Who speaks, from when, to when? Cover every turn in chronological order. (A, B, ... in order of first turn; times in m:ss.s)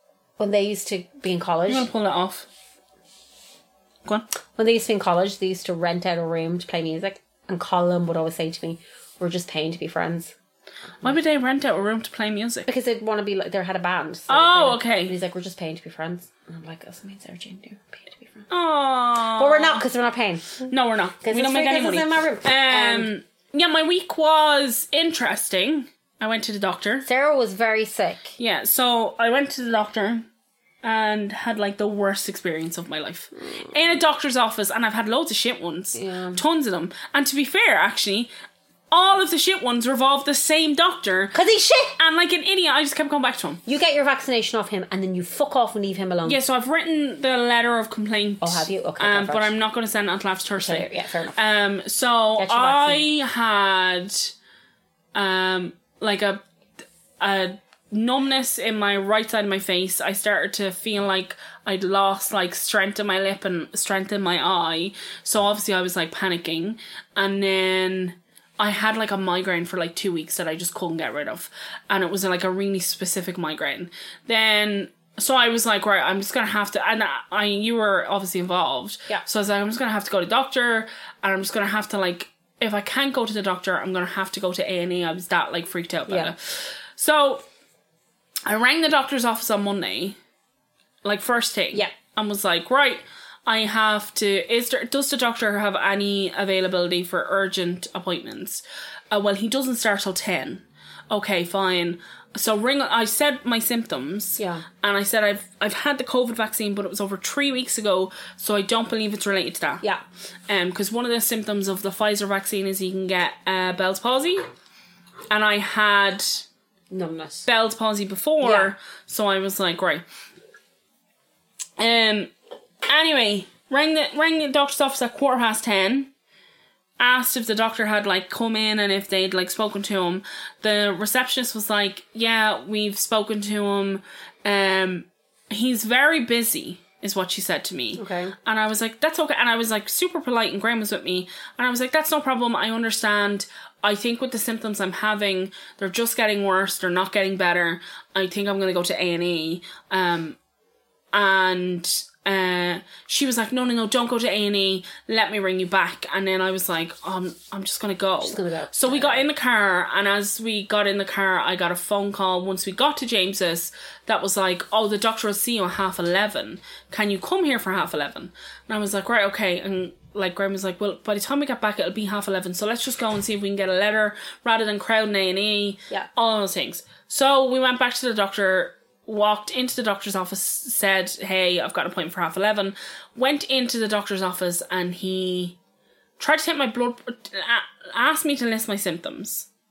0:00.4-0:01.9 A
0:01.7-0:02.5 B
0:04.5-0:10.3 A
0:11.0-0:12.7 B
0:12.6-0:18.5 A
0:14.3-0:15.1 B
0:18.5-0:19.8 B
0:19.3-0:20.7 A
0:20.6-0:27.0 B
0:21.2-0:23.1 A
0:27.0-0:28.4 A
0:28.4-0:30.3 B
0:30.8-0:38.3 B
0:35.9-0:36.4 A
0:38.9-0:41.3 B
0:41.3-0:42.0 A
0:42.0-0:43.6 B
0:43.6-0:46.4 A
0:46.2-0:54.3 B
0:48.4-0:49.5 A
0:50.6-0:51.4 A
0:52.4-0:53.1 A
0:55.1-0:56.4 B
0:57.2-1:27.4 B
1:26.1-1:26.3 A
1:28.4-1:30.2 B
1:31.0-1:49.8 B
1:44.4-1:44.6 A
1:50.5-1:54.4 B
1:55.3-1:56.4 B
1:56.9-1:57.5 A
1:57.4-2:00.0 B
1:58.4-1:58.7 A
2:01.8-2:02.3 B
2:02.8-2:06.1 B
2:07.0-2:30.4 B
2:17.9-2:18.3 A
2:31.1-3:05.6 B
2:38.2-2:39.2 A
3:06.2-3:09.5 B